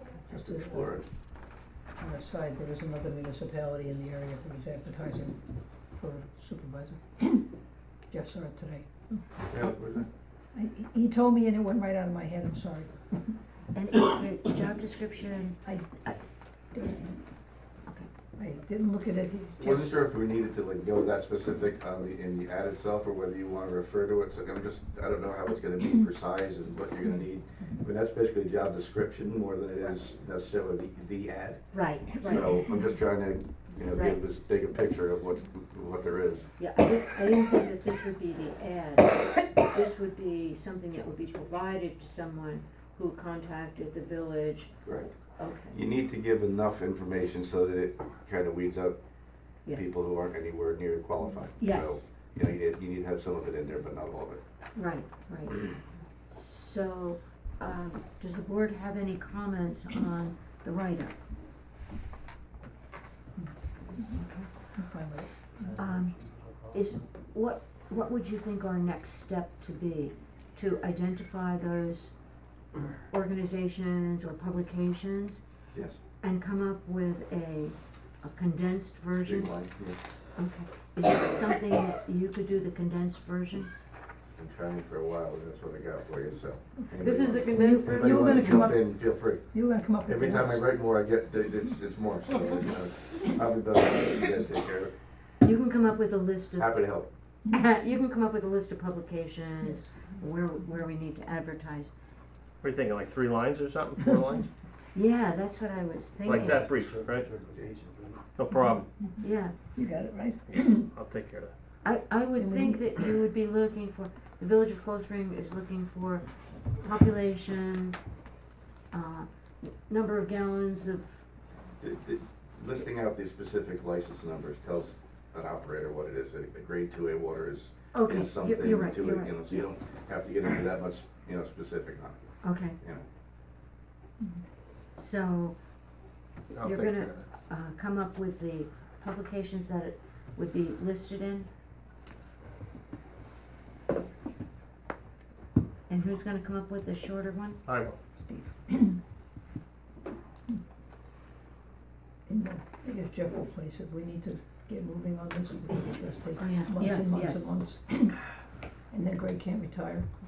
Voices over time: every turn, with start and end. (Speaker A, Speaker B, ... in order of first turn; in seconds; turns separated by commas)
Speaker A: 0.3-0.9, Speaker B: 0.3-1.1, Speaker A: 2.0-5.4, Speaker A: 6.0-7.5, Speaker A: 8.1-9.2, Speaker B: 9.4-10.1, Speaker A: 10.5-12.9, Speaker C: 13.7-16.1, Speaker A: 15.6-16.1, Speaker A: 16.7-17.1, Speaker A: 18.4-20.0, Speaker B: 19.6-36.5, Speaker C: 31.7-32.5, Speaker C: 36.6-45.8, Speaker B: 44.8-45.1, Speaker B: 45.7-49.0, Speaker B: 49.7-54.4, Speaker C: 51.6-52.1, Speaker C: 54.7-61.1, Speaker A: 63.4-64.1, Speaker C: 64.0-64.5, Speaker A: 64.7-65.7, Speaker C: 65.8-72.1, Speaker D: 66.0-66.4, Speaker C: 73.1-75.4, Speaker B: 75.7-76.0, Speaker C: 76.2-79.5, Speaker B: 79.2-80.0, Speaker C: 80.3-83.7, Speaker B: 84.3-89.5, Speaker C: 87.0-88.7, Speaker A: 87.5-90.8, Speaker B: 90.0-94.9, Speaker C: 95.4-96.8, Speaker B: 96.6-97.1, Speaker C: 97.5-101.9, Speaker A: 99.6-99.9, Speaker D: 102.6-104.5, Speaker C: 104.9-106.6, Speaker D: 106.2-108.8, Speaker C: 109.2-109.5, Speaker A: 109.7-110.9, Speaker D: 110.9-111.5, Speaker C: 111.8-118.0, Speaker A: 112.3-112.9, Speaker C: 118.9-121.2, Speaker B: 121.8-133.0, Speaker C: 127.9-129.7, Speaker C: 132.4-132.8, Speaker C: 134.9-135.6, Speaker D: 136.5-137.2, Speaker C: 136.6-141.5, Speaker C: 145.9-148.5, Speaker D: 147.7-147.9, Speaker A: 148.7-149.0, Speaker A: 152.3-158.3, Speaker C: 156.4-157.5, Speaker A: 158.9-160.1